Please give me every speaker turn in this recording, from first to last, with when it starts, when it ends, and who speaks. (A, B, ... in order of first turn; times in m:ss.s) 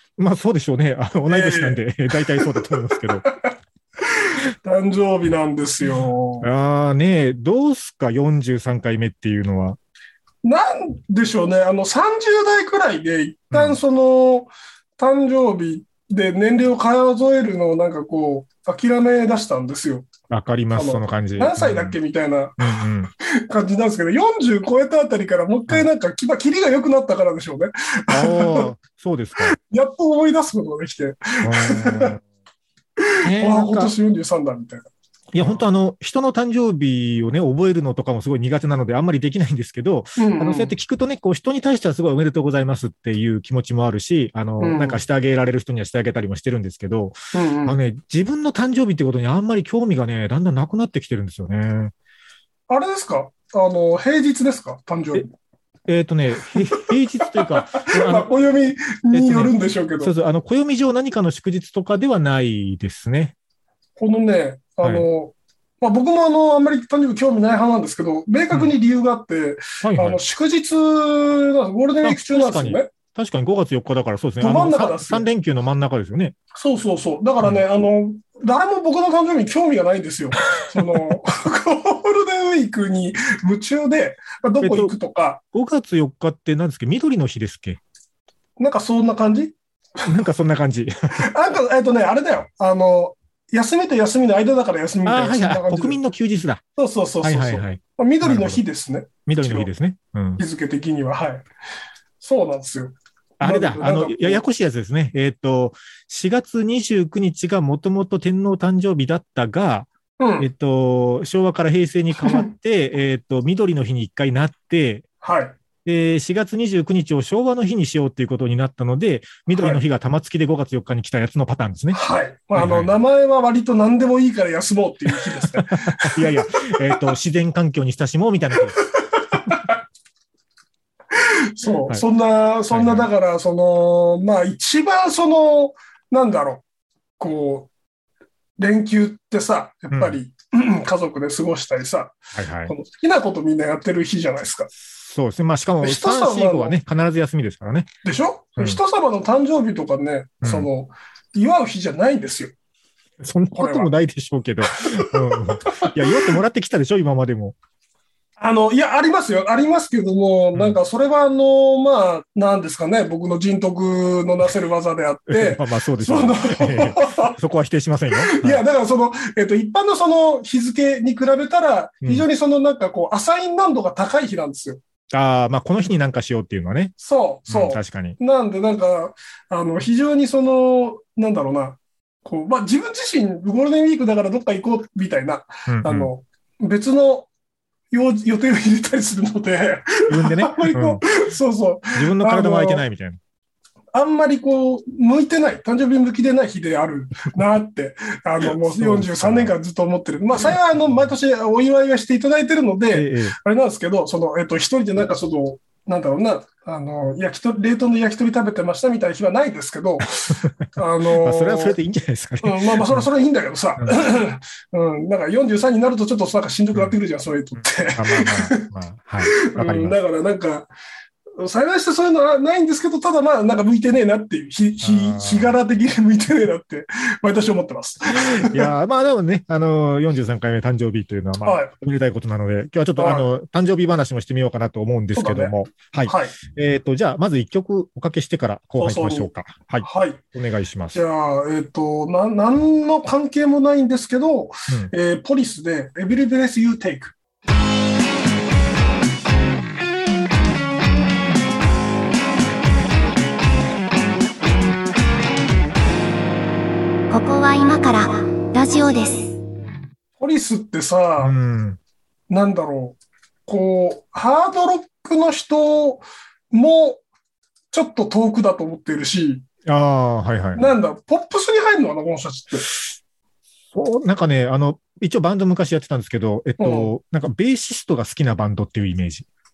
0:00.2-0:03.2 A
0:01.3-0:01.8 B
0:02.3-0:03.3 B
0:04.0-0:06.5 B
0:06.4-0:09.8 A
0:10.4-0:20.1 B
0:13.5-0:13.8 A
0:20.3-0:22.0 A
0:20.7-0:22.6 B
0:22.6-0:23.1 A
0:23.2-0:28.7 B
0:28.1-0:29.6 A
0:29.5-0:32.2 B
0:31.4-0:32.2 A
0:33.0-0:34.9 B
0:33.2-0:33.9 A
0:35.3-0:51.9 A
0:40.2-0:40.7 B
0:44.6-0:45.0 B
0:47.3-0:47.8 B
0:52.7-0:55.3 B
0:55.9-0:58.3 A
0:56.5-1:00.1 B
0:59.1-1:03.3 A
1:04.0-1:12.9 B
1:09.8-1:10.2 A
1:12.0-1:16.4 A
1:14.4-1:15.3 B
1:16.5-1:25.4 B
1:24.6-1:24.9 A
1:25.5-1:27.8 A
1:28.6-1:29.5 B
1:30.0-1:31.3 A
1:31.1-1:36.0 B
1:35.0-1:36.6 A
1:36.8-1:39.7 B
1:37.2-1:38.6 A
1:39.2-1:40.4 A
1:40.4-1:41.4 B
1:42.2-1:44.4 B
1:43.4-1:55.0 A
1:50.2-1:50.5 B
1:55.2-1:55.6 B
1:55.8-2:02.0 A
1:59.5-1:59.8 B
2:01.9-2:06.3 B
2:02.5-2:02.9 A
2:05.6-2:08.8 A
2:09.0-2:09.8 B
2:11.1-2:16.6 B
2:12.7-2:13.1 A
2:17.2-2:17.7 B
2:18.6-2:24.7 B
2:19.9-2:20.2 A
2:22.3-2:22.7 A
2:24.9-2:27.9 A
2:25.8-2:26.8 B
2:28.0-2:32.5 B
2:30.4-2:30.7 A
2:33.2-2:37.6 A
2:33.6-2:33.9 B
2:34.8-2:36.3 B
2:38.4-2:47.4 B
2:45.3-2:48.6 A
2:48.2-2:54.8 B
2:55.1-2:56.9 A
2:57.0-3:07.3 B
2:57.5-2:58.2 A
3:05.7-3:06.1 A
3:07.9-3:12.8 B
3:10.1-3:11.0 A
3:11.9-3:13.2 A
3:13.9-3:31.8 B
3:18.4-3:19.5 A
3:22.9-3:23.4 A
3:31.2-3:33.1 A
3:32.4-3:38.6 B
3:37.9-3:39.9 A
3:39.2-3:40.7 B
3:41.4-3:48.7 B
3:44.8-3:45.5 A
3:48.1-4:01.0 A
3:51.4-3:51.7 B
3:53.0-3:53.3 B
3:55.1-3:55.5 B
3:56.0-3:56.4 B
3:58.8-3:59.3 B
3:59.8-4:00.2 B
4:00.9-4:07.1 B
4:17.1-4:19.3 C
4:20.2-4:21.3 B
4:21.2-4:21.8 A
4:22.3-4:23.0 B
4:23.5-4:27.0 B
4:27.7-4:29.4 B
4:29.6-4:30.7 A
4:30.5-4:32.7 B
4:33.7-4:39.3 A
4:36.6-4:36.9 B